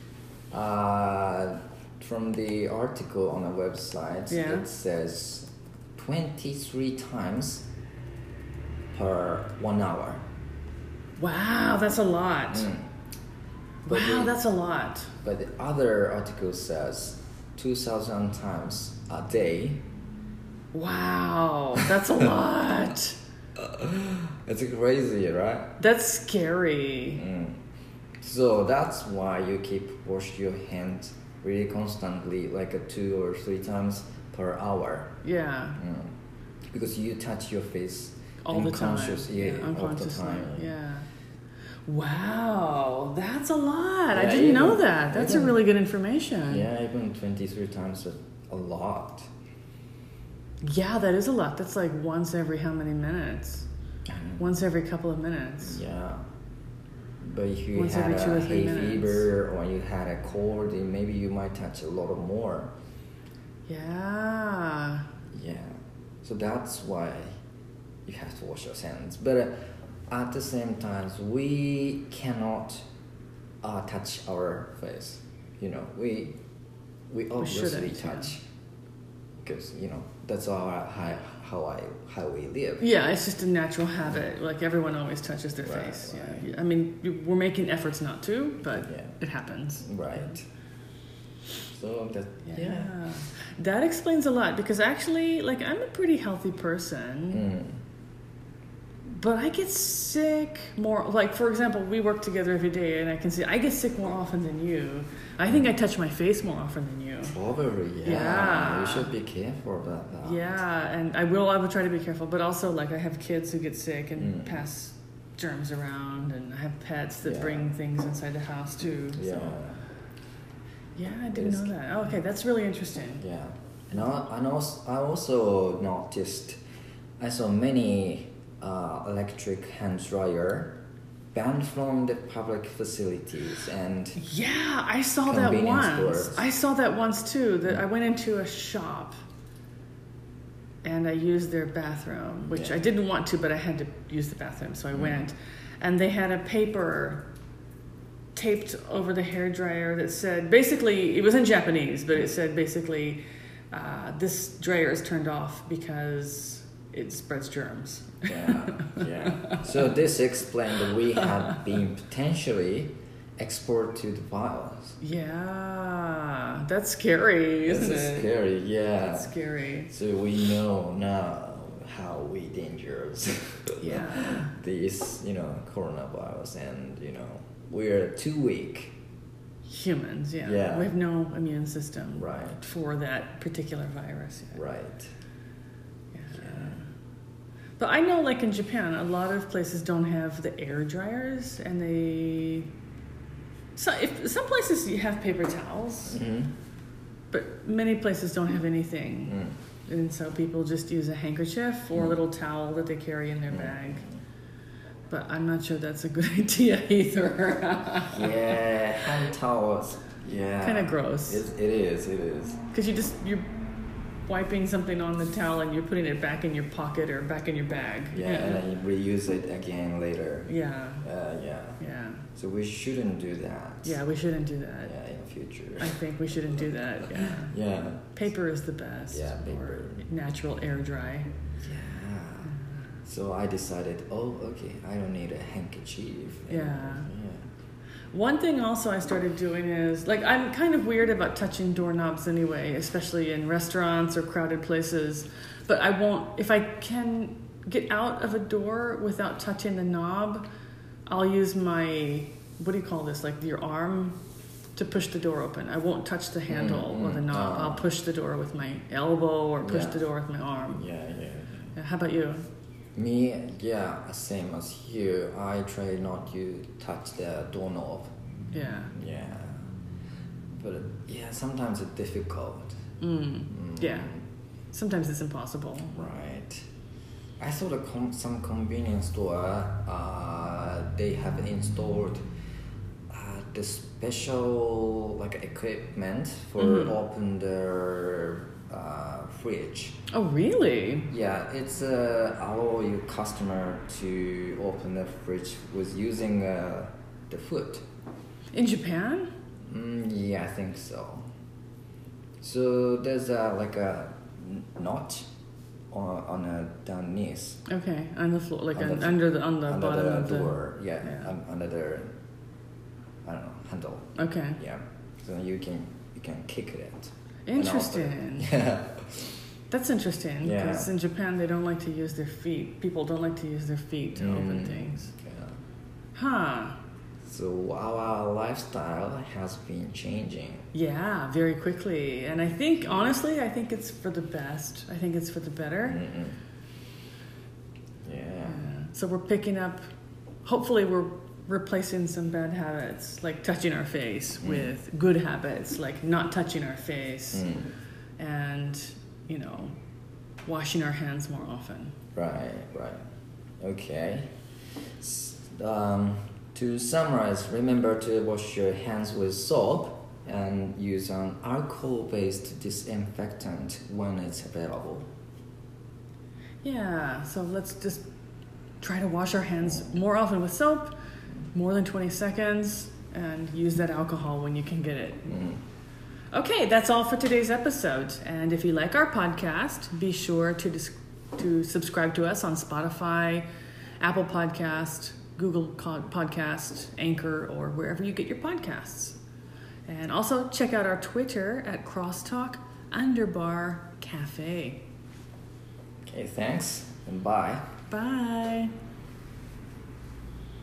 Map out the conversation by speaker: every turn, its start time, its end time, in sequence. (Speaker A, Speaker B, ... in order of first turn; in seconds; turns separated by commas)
Speaker A: 0.5-7.7, Speaker B: 4.3-4.7, Speaker A: 8.9-10.2, Speaker B: 11.2-12.7, Speaker A: 12.5-12.9, Speaker B: 13.9-15.1, Speaker A: 13.9-14.3, Speaker A: 15.2-19.8, Speaker B: 20.7-23.2, Speaker A: 23.6-25.7, Speaker B: 25.8-27.2, Speaker A: 27.1-27.6, Speaker A: 28.2-35.1, Speaker B: 35.2-35.8, Speaker A: 35.8-36.1, Speaker A: 36.7-40.7, Speaker B: 38.4-41.1, Speaker B: 41.9-46.7, Speaker A: 44.1-45.6, Speaker A: 46.5-49.3, Speaker B: 50.6-53.7, Speaker A: 54.1-54.4, Speaker B: 54.4-55.8, Speaker A: 55.6-56.2, Speaker A: 57.2-62.7, Speaker B: 57.8-59.3, Speaker B: 63.7-65.1, Speaker A: 65.3-67.3, Speaker A: 68.1-69.5, Speaker A: 70.1-72.9, Speaker A: 73.6-76.4, Speaker A: 77.1-78.4, Speaker B: 77.4-78.3, Speaker A: 79.4-82.8, Speaker B: 82.8-90.3, Speaker A: 85.6-86.5, Speaker A: 88.8-89.1, Speaker A: 89.8-90.4, Speaker A: 91.7-92.9, Speaker B: 92.5-97.5, Speaker A: 97.3-97.8, Speaker B: 99.1-107.4, Speaker A: 107.2-110.4, Speaker B: 108.0-109.1, Speaker B: 110.2-119.6, Speaker A: 114.2-114.6, Speaker A: 117.2-117.7, Speaker A: 119.1-119.8, Speaker B: 121.0-123.2, Speaker A: 121.3-121.7, Speaker A: 123.2-126.6, Speaker A: 127.2-130.8, Speaker A: 131.3-134.2, Speaker B: 134.2-139.1, Speaker A: 135.3-136.4, Speaker B: 140.8-147.2, Speaker A: 142.5-142.8, Speaker A: 144.9-145.2, Speaker B: 148.3-153.2, Speaker B: 153.7-159.6, Speaker A: 158.3-165.0, Speaker B: 161.2-161.6, Speaker B: 165.0-168.3, Speaker A: 167.6-169.3, Speaker B: 169.1-169.9, Speaker A: 169.9-178.9, Speaker B: 173.8-174.5, Speaker B: 179.7-184.6, Speaker A: 180.4-180.9, Speaker A: 182.2-182.6, Speaker A: 184.6-185.1, Speaker B: 186.1-186.9, Speaker B: 187.8-192.7, Speaker B: 193.8-196.2, Speaker A: 196.1-196.5, Speaker B: 197.3-204.0, Speaker A: 199.3-199.6, Speaker A: 203.5-204.1, Speaker B: 205.1-208.3, Speaker A: 208.1-212.6, Speaker B: 210.6-211.4, Speaker B: 212.7-213.5, Speaker B: 214.3-218.6, Speaker A: 218.1-220.5, Speaker B: 220.5-221.1, Speaker A: 221.0-221.8, Speaker B: 221.8-222.2, Speaker A: 222.3-224.0, Speaker B: 223.8-224.9, Speaker A: 224.9-226.0, Speaker B: 225.8-227.6, Speaker A: 226.5-228.1, Speaker B: 228.1-231.3, Speaker A: 229.1-230.1, Speaker A: 231.6-232.5, Speaker A: 233.1-237.5, Speaker B: 236.5-237.1, Speaker B: 238.1-250.4, Speaker B: 251.1-254.2, Speaker B: 254.8-260.8, Speaker A: 256.5-257.8, Speaker A: 259.6-260.0, Speaker A: 260.8-261.7, Speaker B: 261.8-262.4, Speaker A: 262.9-268.1, Speaker B: 268.5-268.9, Speaker A: 268.9-269.6, Speaker A: 270.6-272.8, Speaker B: 273.0-274.1, Speaker A: 273.5-274.2, Speaker B: 274.7-276.0, Speaker A: 275.9-276.6, Speaker A: 277.4-282.2, Speaker A: 283.1-290.0, Speaker B: 286.6-287.0, Speaker B: 290.1-291.1, Speaker A: 291.1-297.8, Speaker B: 298.5-299.3, Speaker A: 299.7-301.3, Speaker A: 302.4-305.3, Speaker A: 305.9-307.6, Speaker B: 307.7-311.3, Speaker A: 308.7-312.1, Speaker A: 313.2-319.3, Speaker B: 314.1-314.6, Speaker B: 317.5-318.5, Speaker B: 319.7-325.1, Speaker A: 320.4-320.9, Speaker A: 324.1-325.6, Speaker B: 326.1-326.8, Speaker A: 327.2-330.7, Speaker B: 330.7-336.0, Speaker A: 335.9-336.4, Speaker A: 338.0-338.7, Speaker B: 338.5-339.9, Speaker B: 340.4-347.5, Speaker A: 344.4-344.7, Speaker A: 347.3-347.7, Speaker B: 348.2-349.7, Speaker B: 350.5-352.0, Speaker A: 352.1-353.0, Speaker A: 353.6-354.3, Speaker A: 355.0-365.1, Speaker B: 366.6-368.0, Speaker B: 368.8-370.9, Speaker B: 371.5-375.3, Speaker A: 375.3-375.6, Speaker B: 376.3-383.4, Speaker B: 384.0-389.2, Speaker B: 389.9-394.8, Speaker A: 396.1-397.7, Speaker B: 397.9-398.7